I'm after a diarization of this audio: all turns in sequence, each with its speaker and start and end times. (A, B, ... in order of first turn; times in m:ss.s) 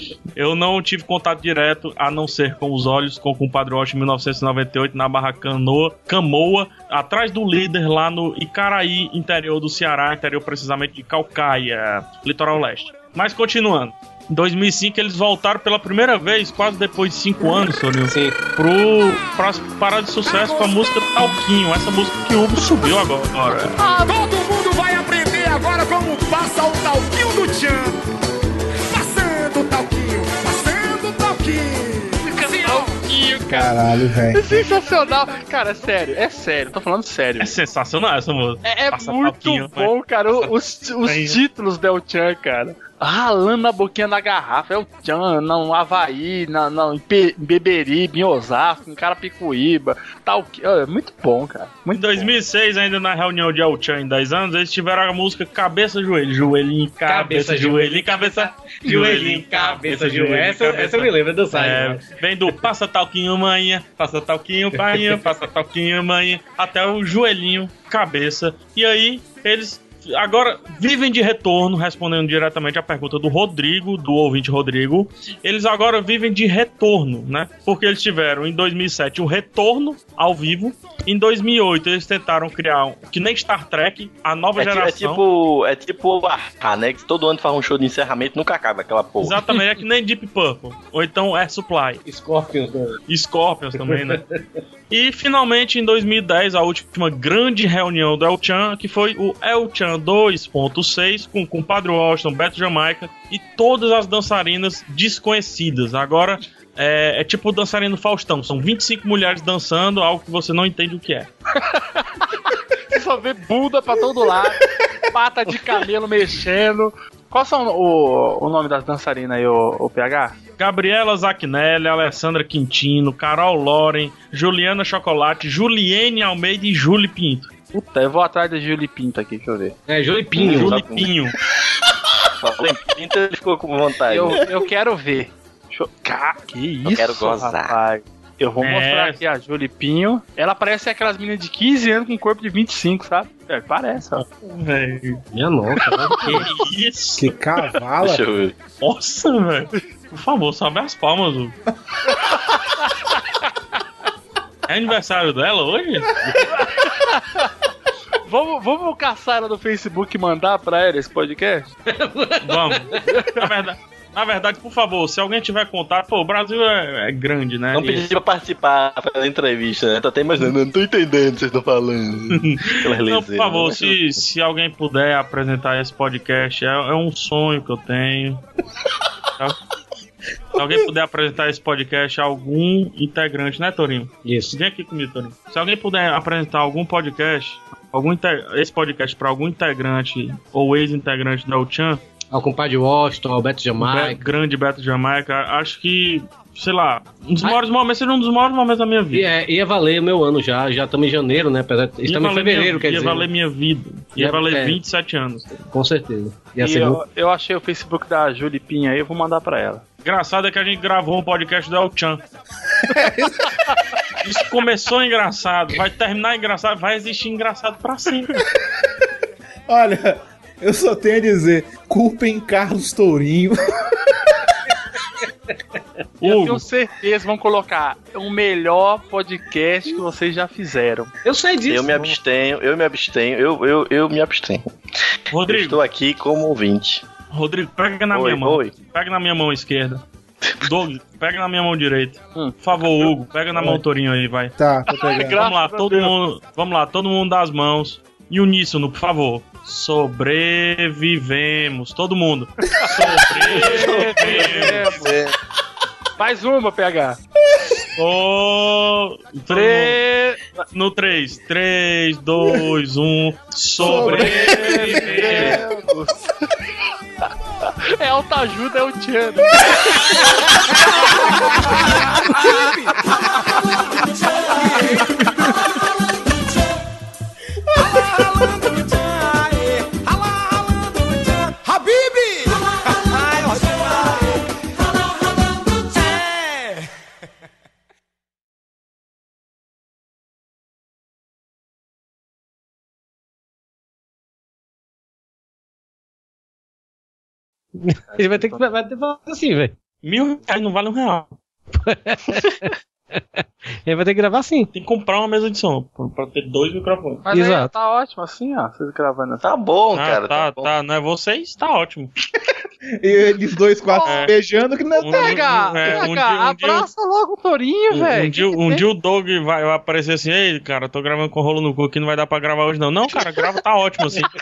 0:00.4-0:23.8 A
0:18.1-0:18.4 B
0:20.3-0:20.8 C
0:23.8-0:28.0 C
0:28.9-0:32.9 C
0:32.2-0:33.7 D
0:33.5-0:34.6 E
0:34.3-0:37.6 D
0:37.4-0:40.5 A
0:38.6-0:52.4 D
0:41.0-0:41.4 A
0:51.9-1:25.2 A
0:57.0-1:02.1 B
1:04.8-1:05.2 B
1:24.6-1:29.5 F
1:29.2-1:32.0 A
1:32.0-1:33.0 B
1:33.1-1:34.2 A
1:33.9-1:34.2 B
1:34.9-1:51.3 A
1:51.6-1:52.4 D
1:52.9-2:00.4 D
2:00.6-2:07.5 A
2:07.7-2:09.8 D
2:09.9-2:10.8 B
2:10.4-2:11.1 F
2:10.4-2:11.4 A
2:12.2-2:14.5 F
2:14.1-2:24.2 D
2:16.8-2:17.8 F
2:18.6-2:19.2 A
2:24.1-2:25.2 A
2:25.3-2:26.4 B
2:25.8-2:26.4 D
2:26.1-2:27.3 A
2:27.2-2:28.2 E
2:28.0-2:28.6 F
2:28.8-2:31.6 A
2:34.7-2:36.1 A
2:36.4-2:37.5 D
2:38.3-2:41.7 D
2:41.9-2:43.0 B
2:42.4-2:48.1 A
2:43.0-2:43.5 D
2:47.8-2:54.0 F
2:52.4-2:58.4 A
3:00.6-3:12.0 A
3:04.2-3:04.6 B
3:12.3-3:14.3 B
3:13.8-3:19.3 A
3:19.1-3:23.3 B
3:22.1-3:25.6 A
3:24.2-3:24.8 B
3:25.7-3:27.0 B
3:26.6-3:29.8 D
3:30.0-3:32.2 A
3:32.9-3:33.7 E
3:34.2-3:38.4 A
3:39.7-3:44.0 E
3:46.2-3:46.6 A
3:46.2-3:51.1 D
3:51.2-3:52.2 B
3:51.7-3:54.7 F
3:55.3-3:55.8 A
3:55.5-3:57.0 F
3:57.3-4:00.0 A
3:58.1-3:58.8 F
4:00.6-4:04.5 A
4:02.4-4:02.9 D
4:04.6-4:05.4 E
4:05.0-4:06.1 D
4:05.2-4:14.9 A
4:12.8-4:15.2 D
4:12.9-4:15.3 F
4:16.2-4:17.2 D
4:18.0-4:20.0 A
4:19.5-4:20.4 D
4:20.7-4:25.6 A
4:23.8-4:25.7 E
4:23.8-4:26.2 D
4:27.9-4:33.1 D
4:32.4-4:36.7 C
4:37.8-4:44.5 C
4:45.6-4:46.8 C
4:57.8-4:59.7 B
5:00.0-5:01.4 A
5:01.8-5:03.2 B
5:03.9-5:04.7 B
5:04.7-5:07.3 A
5:07.3-5:09.4 D
5:07.3-5:07.7 B
5:09.4-5:10.7 F
5:09.9-5:12.1 A
5:13.0-5:16.1 E
5:13.9-5:14.3 D
5:14.0-5:14.3 A
5:15.0-5:16.9 A
5:15.1-5:18.8 D
5:17.9-5:24.3 A